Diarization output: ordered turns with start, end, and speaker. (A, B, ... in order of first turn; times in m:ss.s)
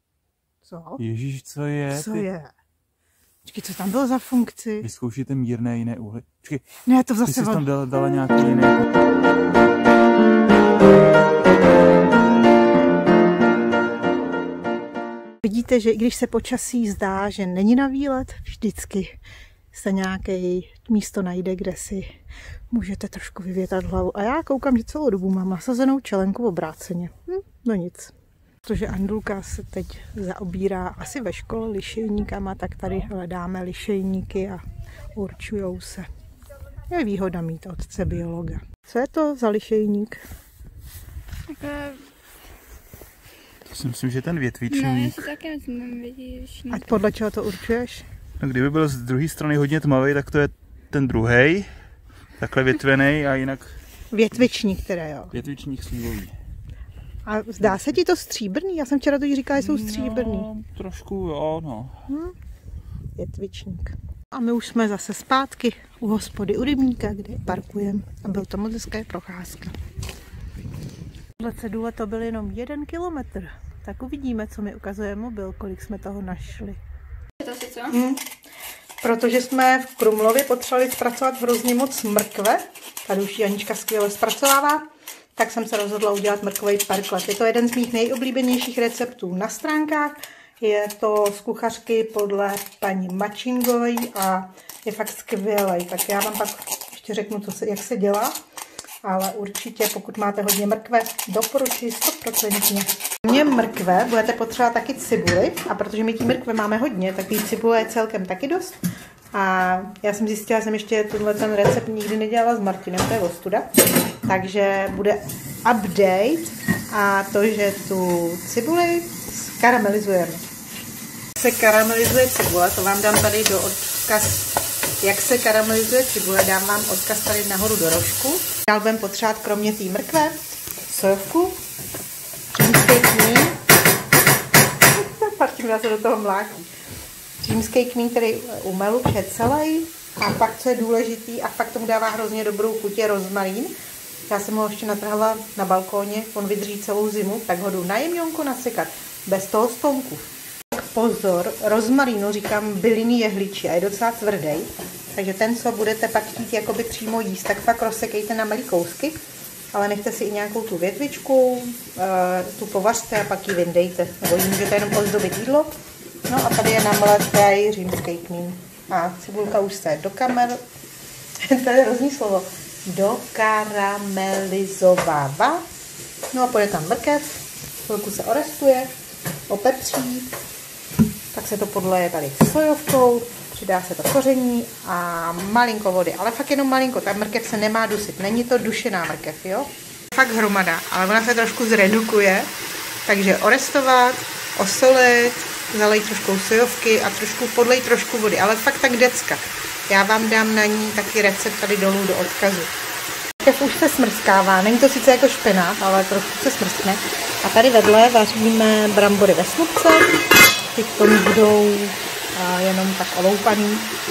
0:00.6-0:01.0 A
0:01.0-0:02.2 B
0:01.9-0:02.5 A
0:03.4-0:04.9 A
0:04.8-0:08.8 B
0:06.8-0:07.6 A
0:15.4-0:19.2 A
0:19.7-0:22.1 A
0:22.7-0:28.1 A
0:28.6-0:34.6 A
0:35.1-0:36.1 A
0:36.9-0:40.2 A
0:41.5-0:42.0 C
0:43.7-0:45.3 B
0:44.7-0:46.8 C
0:46.7-0:48.0 A
0:48.4-0:51.7 B
0:52.4-0:53.8 B
0:54.1-0:55.3 A
0:55.3-0:56.3 B
0:57.2-1:00.5 A
0:57.6-0:57.9 B
0:59.6-1:02.0 B
1:02.1-1:02.3 A
1:03.2-1:09.7 A
1:11.4-1:16.8 A
1:17.7-1:18.3 A
1:19.0-1:38.3 A
1:39.0-1:48.8 A
1:49.3-1:53.7 A
1:54.2-2:00.4 A
2:01.4-2:11.6 A
2:12.5-2:13.6 A
2:14.9-2:16.7 A
2:17.4-2:23.7 A
2:24.3-2:39.2 A
2:39.7-2:45.7 A
2:46.3-2:50.6 A
2:51.4-2:55.6 A
2:56.3-2:58.9 A
2:59.5-3:00.3 A
3:01.3-3:12.5 A
3:13.0-3:22.7 A
3:23.4-3:30.1 A
3:30.7-3:33.9 A